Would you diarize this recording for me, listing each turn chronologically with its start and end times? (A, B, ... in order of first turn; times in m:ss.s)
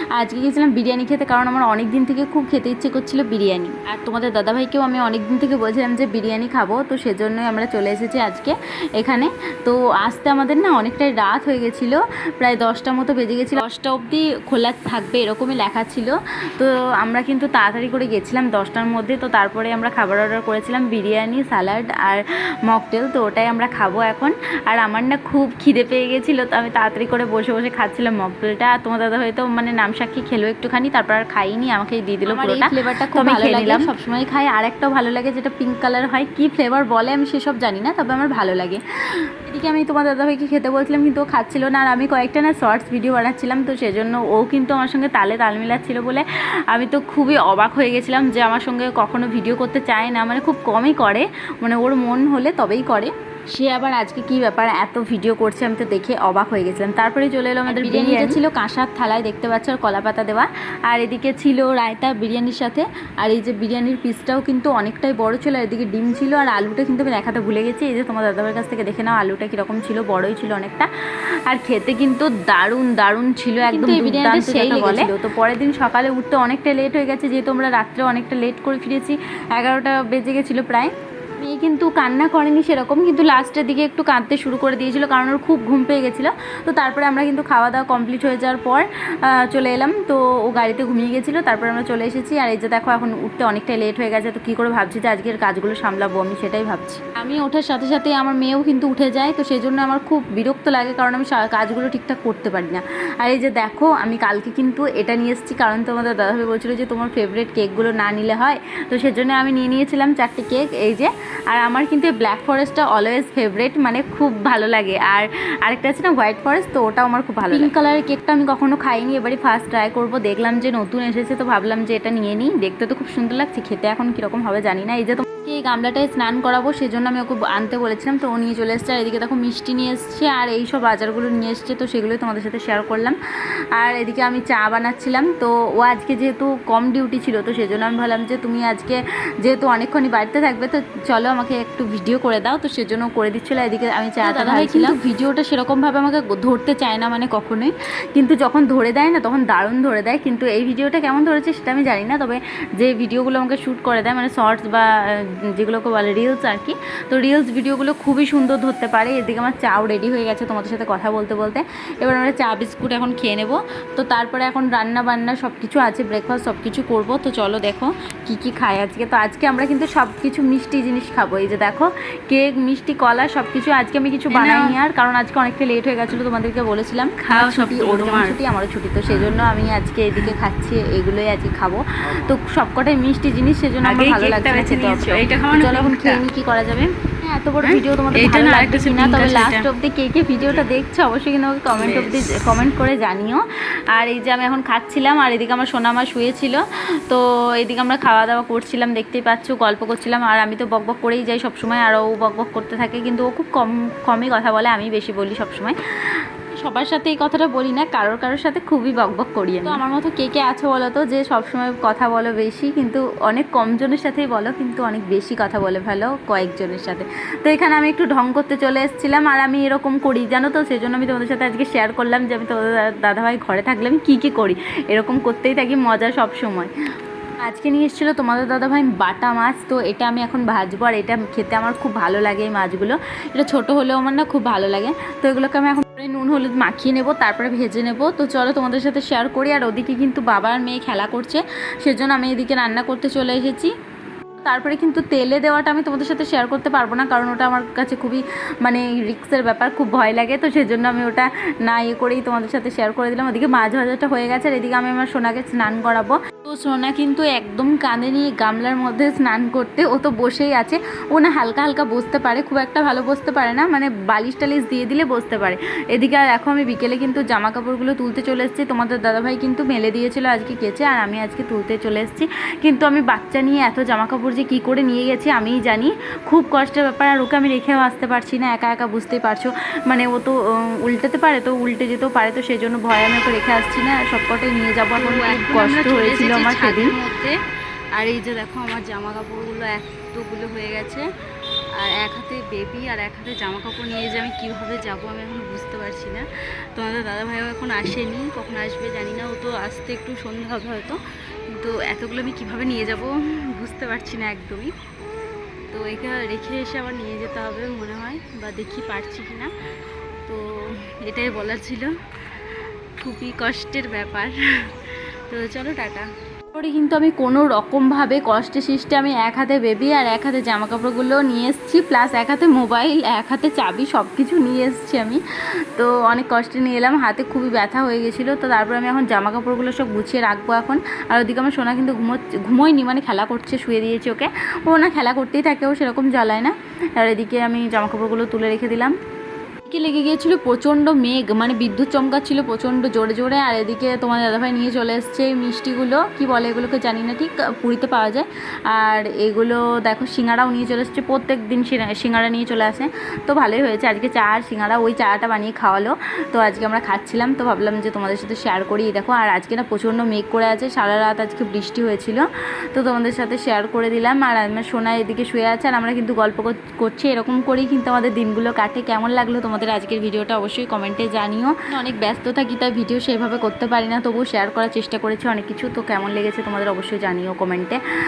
0:00.2-0:38.8 A
0:32.3-0:33.9 B
0:39.4-1:10.9 A
0:57.7-0:58.4 B
1:11.5-2:13.2 A
1:13.6-1:15.1 B
1:57.4-1:57.7 B
2:13.8-2:34.9 A
2:24.2-2:25.0 B
2:35.6-3:13.4 A
2:54.3-2:54.8 B
2:57.3-2:58.4 B
3:03.8-3:06.2 B
3:07.6-3:09.7 B
3:11.7-3:12.3 B
3:13.9-3:25.8 A
3:26.5-3:46.7 A
3:47.4-4:03.7 A
4:04.4-4:46.9 A
4:45.0-4:47.3 B
4:48.0-4:51.1 B
4:51.8-4:56.2 B
4:56.8-5:01.0 B
5:01.6-5:02.0 B
5:02.0-5:02.8 A
5:02.6-5:03.0 B
5:03.6-5:04.6 A
5:05.7-5:06.1 B
5:05.8-5:09.5 A
5:11.1-5:11.8 A
5:13.0-5:14.3 B
5:15.3-5:16.1 B
5:16.5-5:25.2 A
5:25.8-5:38.9 A
5:39.7-6:17.8 A